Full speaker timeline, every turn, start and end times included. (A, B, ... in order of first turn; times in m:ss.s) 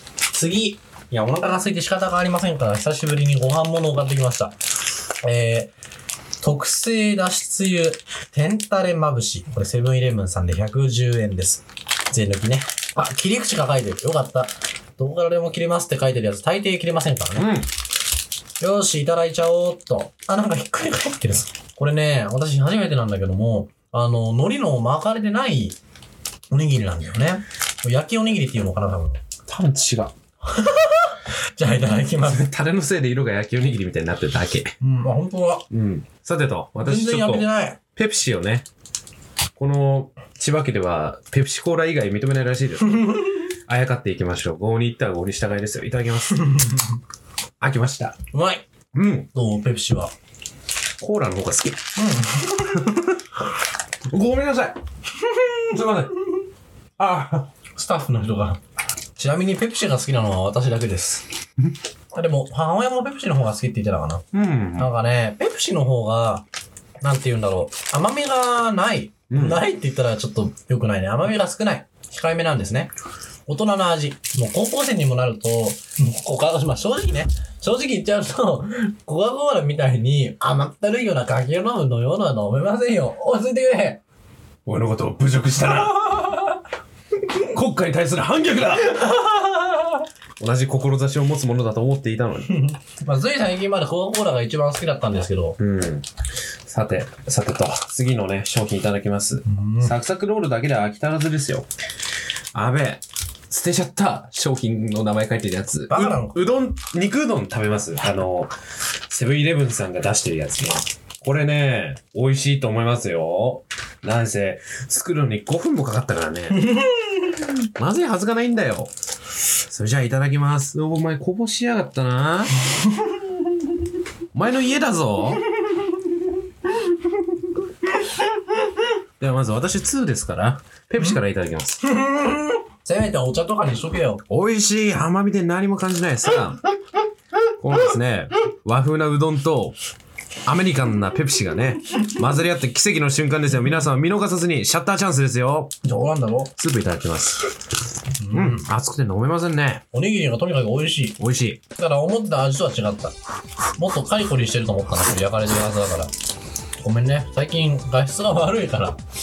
0:00.3-0:04.6 A
0:05.2-0:05.7 A
0:06.4-0:17.5 A
0:17.4-0:17.7 B
0:18.6-0:25.8 A
0:26.5-0:29.2 A
0:29.5-0:30.1 B
0:30.5-0:32.5 A
0:32.2-0:34.7 B
0:34.8-0:35.6 A
0:35.7-0:38.7 B
0:36.8-0:37.8 A
0:39.6-0:46.5 B
0:42.9-0:43.3 A
0:47.6-0:48.2 B
0:48.3-0:48.6 A
0:48.9-0:49.3 B
0:49.3-0:50.1 A
0:51.0-0:51.8 B
0:52.0-0:52.8 A
0:54.1-0:54.8 B
0:55.7-0:56.1 B
0:57.0-0:57.4 B
0:57.8-0:58.6 A
0:59.2-1:01.2 A
1:02.1-1:04.2 A
1:04.3-1:04.9 B
1:04.8-1:06.4 A
1:07.0-1:12.9 A
1:09.3-1:09.6 B
1:13.5-1:24.0 A
1:24.7-1:26.4 B
1:27.3-1:29.2 B
1:30.4-1:32.6 B
1:32.5-1:35.6 A
1:35.6-1:36.1 B
1:36.7-1:41.7 B
1:39.5-1:39.9 A
1:42.5-1:48.5 B
1:45.9-1:46.4 A
1:49.1-1:56.8 B
1:57.8-1:58.9 B
1:59.6-2:02.6 B
2:04.3-2:05.4 B
2:09.2-2:11.8 B
2:11.8-2:14.2 A
2:14.3-2:16.6 B
2:17.6-2:19.8 B
2:20.4-2:25.7 B
2:25.8-2:26.5 A
2:26.6-2:27.6 B
2:28.2-2:28.7 A
2:28.3-2:29.8 B
2:29.9-2:31.2 A
2:31.2-2:31.6 B
2:31.8-2:33.2 A
2:33.8-2:36.1 A
2:36.8-2:39.0 A